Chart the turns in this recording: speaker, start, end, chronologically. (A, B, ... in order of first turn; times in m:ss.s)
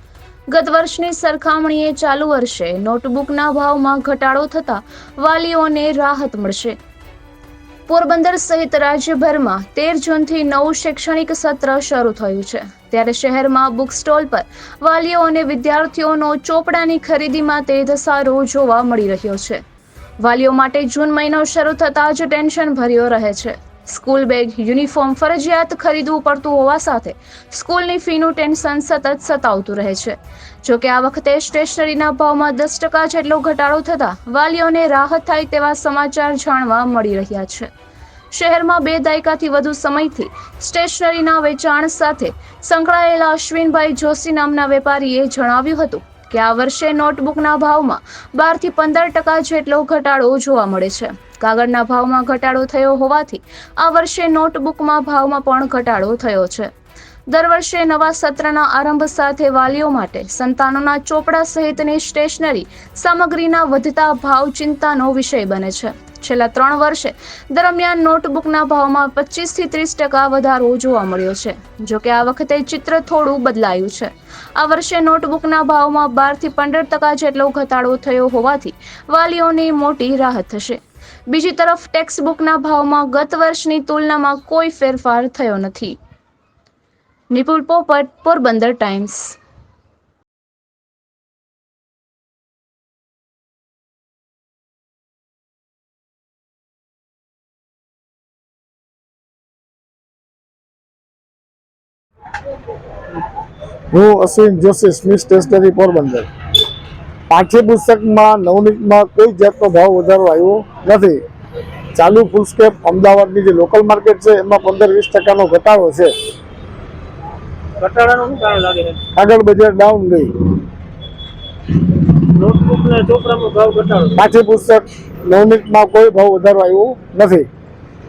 0:00.5-0:06.8 A
0:07.9-0:19.6 A
0:20.2-0:37.7 A
0:38.3-0:56.7 A
0:57.3-1:26.0 A
1:27.3-1:29.4 A
1:43.9-1:46.3 B
1:47.3-1:51.2 B
1:51.9-1:56.1 B
1:57.8-1:59.0 C
1:59.1-2:00.3 B
2:02.2-2:04.2 C
2:04.2-2:07.5 B